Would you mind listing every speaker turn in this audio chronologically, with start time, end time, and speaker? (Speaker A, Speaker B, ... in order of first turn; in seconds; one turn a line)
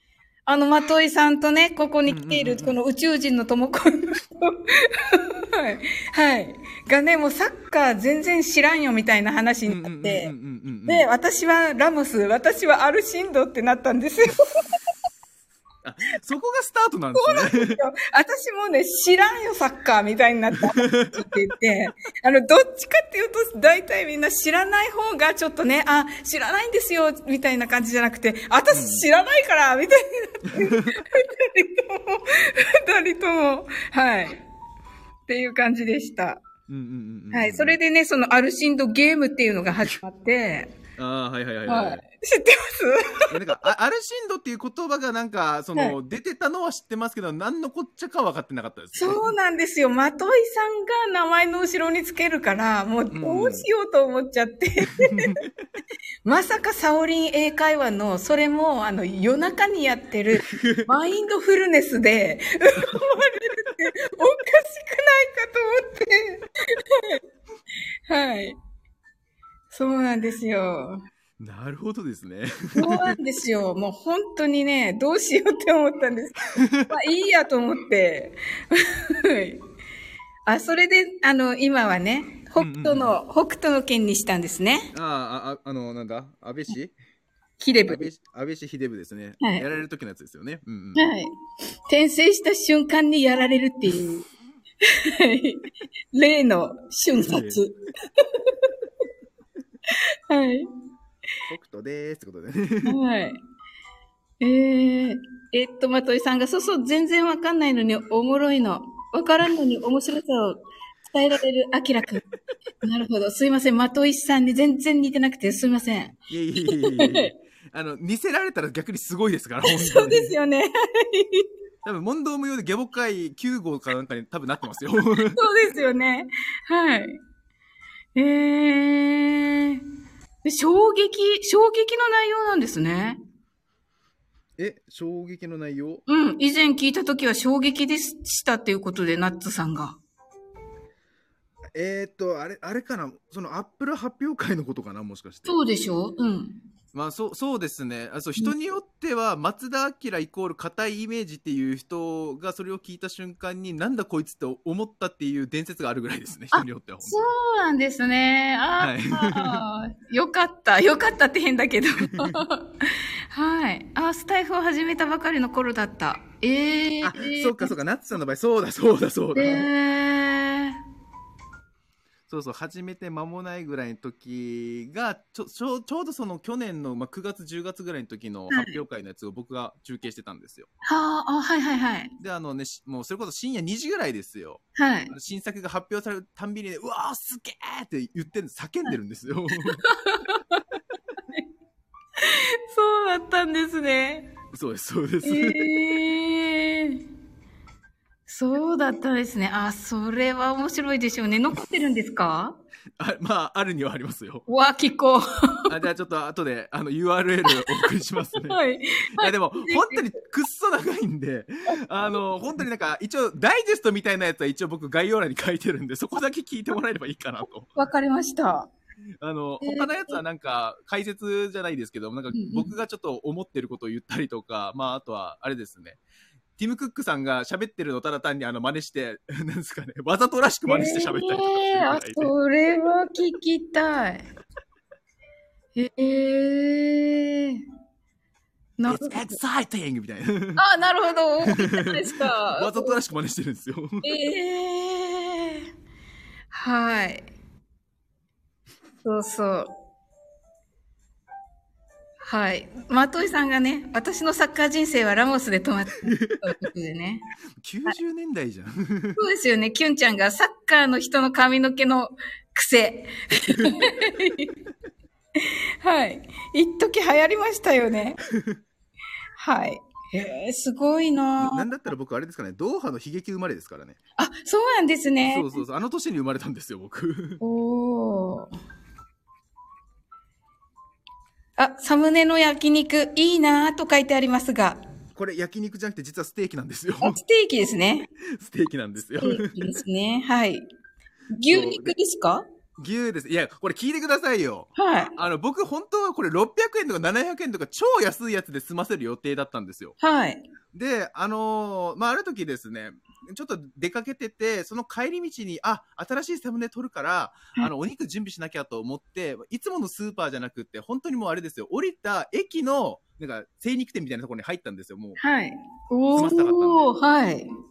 Speaker A: 0.5-10.3
Speaker B: 2.1-2.8
Speaker B: 9.7-11.1
Speaker A: 10.9-14.7
Speaker B: 15.8-17.8
Speaker A: 17.1-34.4
Speaker B: 20.8-21.3
Speaker B: 28.7-29.0
Speaker B: 30.5-30.9
Speaker A: 35.3-36.4
Speaker B: 36.7-37.8
Speaker A: 37.3-40.7
Speaker B: 41.0-42.0
Speaker A: 41.7-43.3
Speaker B: 43.3-49.3
Speaker A: 48.9-55.4
Speaker B: 53.1-53.7
Speaker B: 55.0-55.5
Speaker A: 56.2-67.2
Speaker B: 60.4-60.9
Speaker A: 68.1-68.5
Speaker A: 69.7-71.0
Speaker B: 71.4-73.2
Speaker A: 72.7-79.6
Speaker B: 76.6-76.9
Speaker A: 80.5-84.9
Speaker B: 82.6-83.2
Speaker B: 84.9-86.9
Speaker A: 87.6-88.1
Speaker B: 87.9-91.1
Speaker A: 89.4-89.6
Speaker A: 91.0-91.3
Speaker A: 91.9-94.2
Speaker A: 94.8-98.7
Speaker B: 97.2-97.6
Speaker A: 99.9-100.7
Speaker B: 101.5-103.0
Speaker A: 102.8-103.4
Speaker A: 104.4-112.2
Speaker A: 112.8-116.1
Speaker B: 116.3-120.3
Speaker A: 116.8-117.3
Speaker A: 119.6-121.5
Speaker B: 121.8-125.4
Speaker A: 125.3-127.2
Speaker A: 128.1-129.8
Speaker A: 130.4-133.2
Speaker B: 134.6-136.0
Speaker A: 136.1-140.0
Speaker B: 141.7-145.6
Speaker A: 145.4-146.6
Speaker B: 146.9-157.3
Speaker A: 156.5-162.7
Speaker B: 158.8-159.6
Speaker A: 163.3-167.7
Speaker B: 167.0-169.7
Speaker A: 169.4-170.8
Speaker B: 172.3-180.7
Speaker A: 178.5-178.8
Speaker A: 180.8-182.1
Speaker B: 182.2-189.8
Speaker A: 184.8-185.1
Speaker A: 189.8-190.6
Speaker A: 192.2-194.3
Speaker B: 194.5-195.9
Speaker A: 195.2-197.0
Speaker A: 198.3-202.6
Speaker B: 203.0-204.4
Speaker A: 204.5-205.7
Speaker B: 205.7-208.6
Speaker A: 207.5-207.8
Speaker A: 208.5-210.0
Speaker B: 209.2-217.7
Speaker A: 217.8-218.7
Speaker B: 219.2-226.0
Speaker A: 219.6-220.2
Speaker A: 222.3-222.7
Speaker B: 226.6-232.3
Speaker A: 230.7-234.2
Speaker A: 235.8-237.6
Speaker A: 238.8-239.4
Speaker B: 238.9-240.6
Speaker A: 240.6-243.0
Speaker B: 241.5-244.0
Speaker A: 244.0-245.6
Speaker A: 246.5-247.3
Speaker A: 249.0-249.7
Speaker A: 252.2-257.2
Speaker B: 256.1-256.4
Speaker B: 257.6-259.2
Speaker A: 259.1-264.5
Speaker B: 263.4-263.9
Speaker A: 265.4-268.2
Speaker B: 268.3-268.6
Speaker A: 269.4-271.7
Speaker B: 271.4-274.0
Speaker A: 274.2-275.5
Speaker B: 275.2-277.4
Speaker A: 277.4-278.5
Speaker A: 281.6-284.8
Speaker B: 285.1-287.2
Speaker A: 287.0-288.1
Speaker B: 288.2-289.8
Speaker A: 289.2-290.6
Speaker A: 291.3-292.4
Speaker B: 291.5-291.9
Speaker B: 292.8-300.0
Speaker A: 294.8-295.1
Speaker A: 300.0-300.4
Speaker B: 300.7-315.2
Speaker A: 315.2-317.5
Speaker B: 316.1-316.9